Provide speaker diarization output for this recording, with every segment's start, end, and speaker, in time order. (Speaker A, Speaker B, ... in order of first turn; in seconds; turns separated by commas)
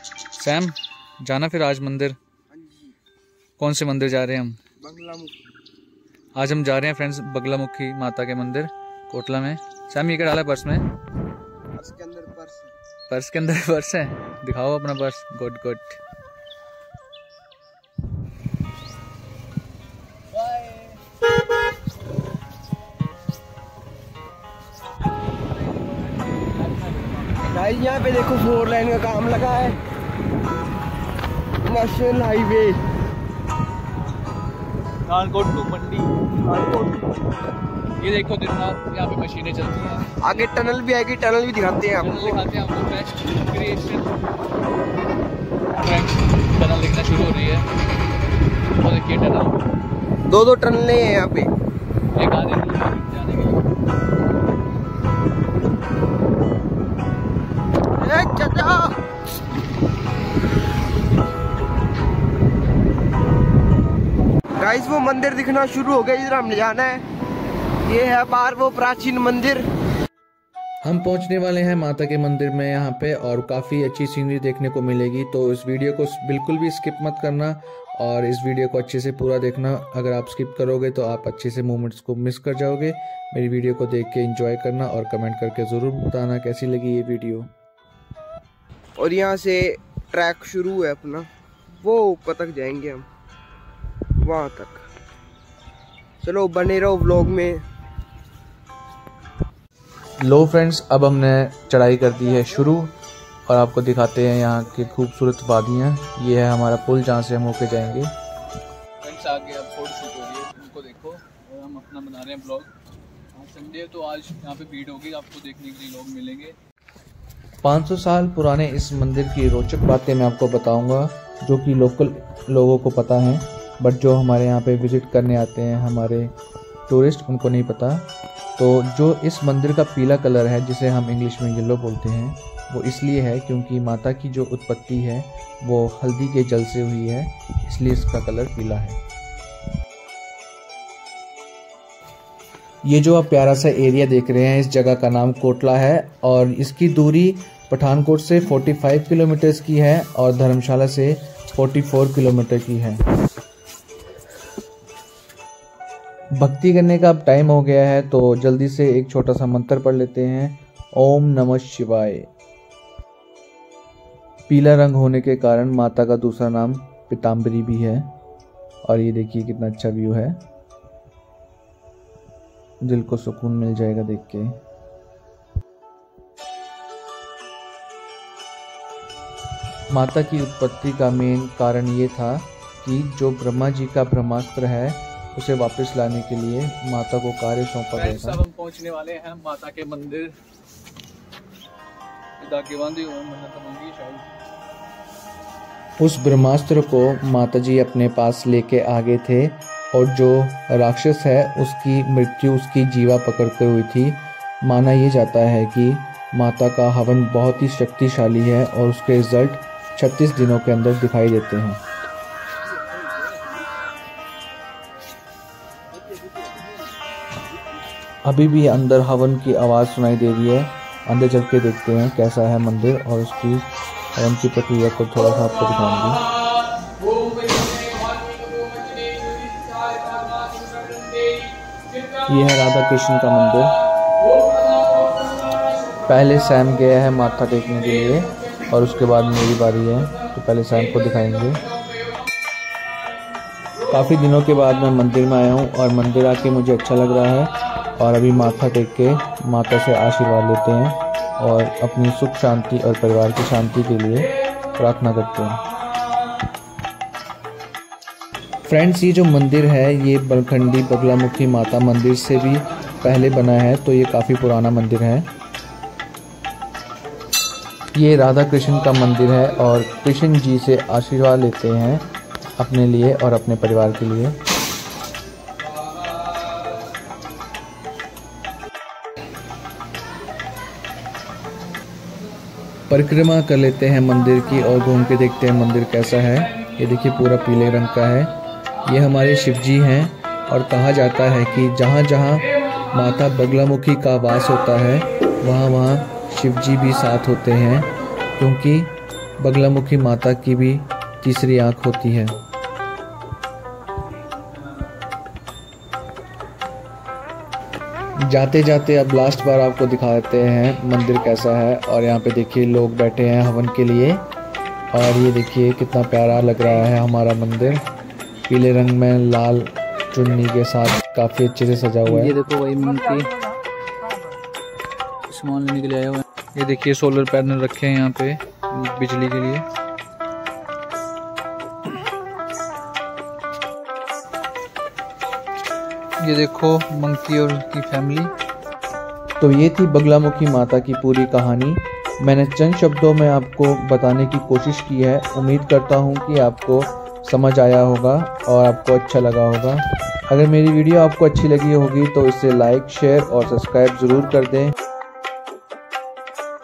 Speaker A: 0.4-2.1, Speaker B: 2.5-3.0, Speaker A: 3.6-4.6, Speaker B: 4.8-5.4, Speaker A: 6.3-10.8, Speaker B: 11.8-12.7, Speaker A: 13.1-16.0, Speaker A: 20.3-20.9, Speaker A: 26.5-27.3, Speaker B: 27.4-29.8, Speaker B: 31.6-32.8, Speaker A: 35.0-36.2, Speaker B: 36.4-37.3, Speaker A: 38.0-40.5, Speaker B: 40.2-42.4, Speaker A: 42.0-44.1, Speaker A: 45.8-47.7, Speaker A: 48.7-49.6, Speaker B: 50.3-51.5, Speaker A: 52.1-53.7, Speaker B: 58.0-59.0, Speaker B: 64.6-67.0, Speaker B: 67.8-69.7, Speaker C: 70.8-87.5, Speaker B: 89.0-91.3, Speaker B: 91.8-93.0, Speaker B: 94.2-94.8, Speaker B: 96.2-97.6, Speaker C: 100.2-102.9, Speaker C: 103.5-108.1, Speaker A: 107.6-108.0, Speaker A: 109.0-112.7, Speaker A: 113.3-116.5, Speaker C: 117.6-126.3, Speaker C: 126.9-139.0, Speaker C: 142.8-153.0, Speaker C: 156.3-162.3, Speaker C: 164.5-168.1, Speaker C: 168.8-170.4, Speaker C: 172.8-174.6, Speaker C: 179.9-188.4, Speaker A: 187.9-190.4, Speaker A: 192.4-194.3, Speaker C: 196.0-211.8, Speaker B: 212.7-213.6, Speaker B: 216.0-216.7, Speaker C: 218.2-226.2, Speaker A: 228.8-229.8, Speaker C: 232.2-233.8, Speaker C: 236.1-241.6, Speaker C: 243.9-255.6, Speaker C: 258.6-265.3, Speaker C: 267.9-272.1, Speaker C: 272.6-274.4, Speaker C: 282.9-288.3, Speaker C: 288.9-302.4, Speaker C: 308.2-314.2, Speaker C: 314.9-317.8, Speaker C: 318.5-322.4, Speaker A: 322.1-323.3, Speaker A: 325.3-329.6, Speaker A: 336.2-338.3, Speaker C: 339.4-354.7